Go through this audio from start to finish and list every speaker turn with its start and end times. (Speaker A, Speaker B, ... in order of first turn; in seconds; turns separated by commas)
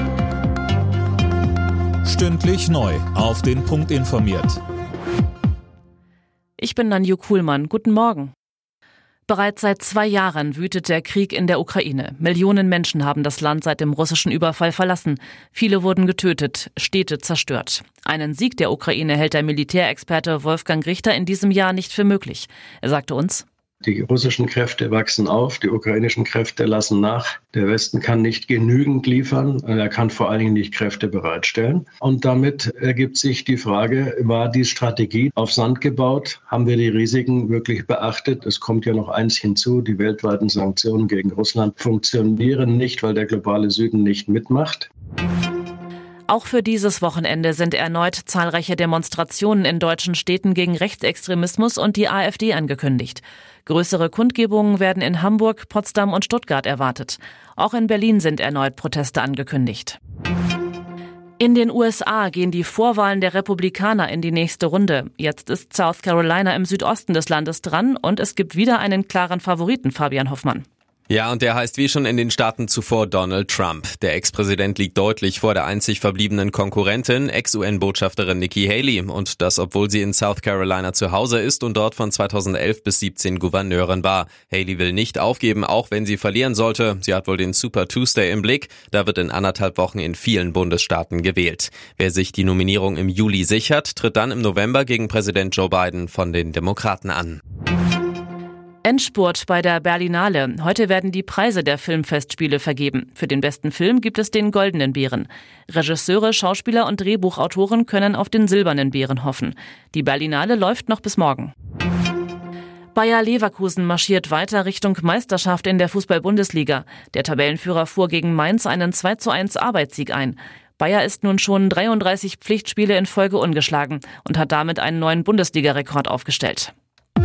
Speaker A: 2.0-4.6, Speaker B: 6.6-8.3, Speaker B: 9.3-23.4, Speaker C: 23.8-44.9, Speaker B: 46.3-60.0, Speaker B: 61.4-70.6, Speaker D: 71.1-97.4, Speaker B: 98.8-111.5, Speaker B: 112.9-126.7